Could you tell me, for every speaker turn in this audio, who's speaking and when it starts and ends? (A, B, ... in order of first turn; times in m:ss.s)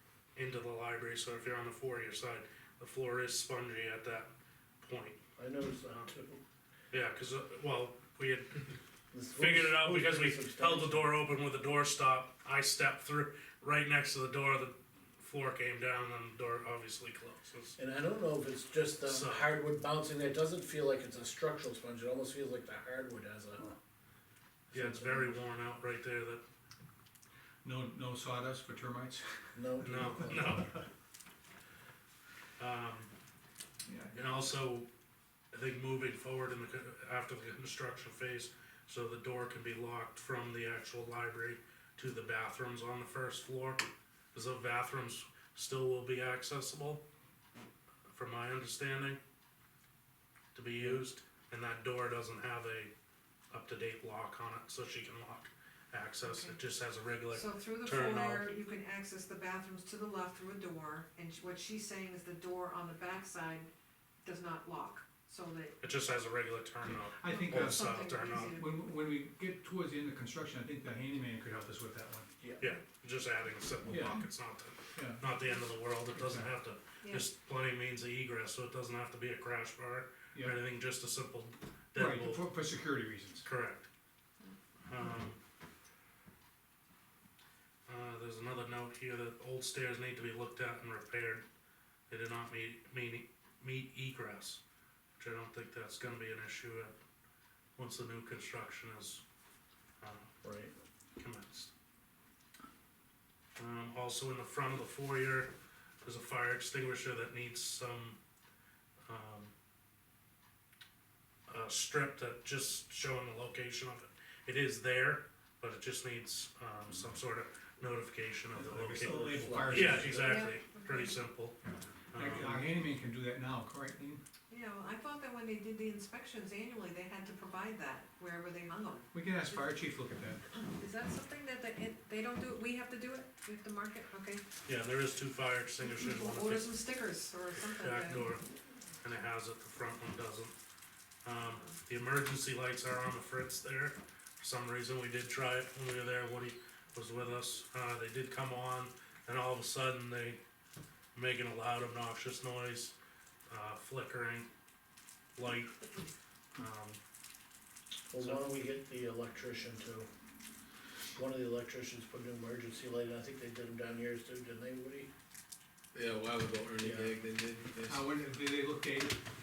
0:00.3-0:05.2 A
0:05.4-0:06.4 B
0:06.9-0:08.7 A
0:09.1-0:11.1 B
0:09.4-0:17.8 A
0:17.8-0:23.7 B
0:19.0-0:19.5 A
0:24.7-0:25.4 B
0:24.7-0:26.4 A
0:27.6-0:30.6 C
0:29.5-0:30.6 B
0:29.8-0:30.7 A
0:32.6-0:33.1 A
0:33.8-0:34.1 C
0:34.1-0:34.9 A
0:35.5-0:47.0 A
0:48.1-0:49.2 A
0:50.5-0:52.9 A
0:50.8-0:51.0 B
0:53.5-0:58.5 A
0:56.2-0:56.6 D
0:57.3-1:03.7 D
1:04.2-1:05.8 D
1:05.8-1:08.5 A
1:06.8-1:12.3 C
1:07.2-1:08.8 D
1:12.4-1:12.7 B
1:12.6-1:22.5 A
1:13.8-1:14.3 C
1:14.9-1:15.2 C
1:16.1-1:16.5 C
1:17.0-1:17.3 D
1:21.9-1:23.4 C
1:23.4-1:23.9 A
1:24.4-1:25.1 D
1:24.8-1:25.4 A
1:27.8-1:31.4 A
1:32.1-1:34.6 A
1:35.2-1:36.9 A
1:37.8-1:39.2 A
1:40.0-1:40.3 A
1:40.4-1:40.7 B
1:41.2-1:41.7 A
1:43.6-1:48.2 A
1:49.0-1:49.5 A
1:51.5-2:01.6 A
1:58.5-2:00.5 C
2:00.2-2:01.2 D
2:02.1-2:02.7 A
2:02.1-2:04.2 C
2:04.5-2:09.7 D
2:09.1-2:10.4 C
2:10.5-2:14.4 D
2:14.6-2:16.7 A
2:15.8-2:18.4 D
2:17.8-2:18.4 A
2:19.0-2:20.5 A
2:21.2-2:30.4 A
2:21.4-2:21.7 D
2:31.1-2:32.9 A
2:33.5-2:34.5 A
2:35.4-2:35.9 A
2:36.6-2:37.0 A
2:38.1-2:40.0 B
2:41.1-2:45.1 B
2:45.9-2:48.0 E
2:46.8-2:47.2 B
2:47.8-2:49.2 C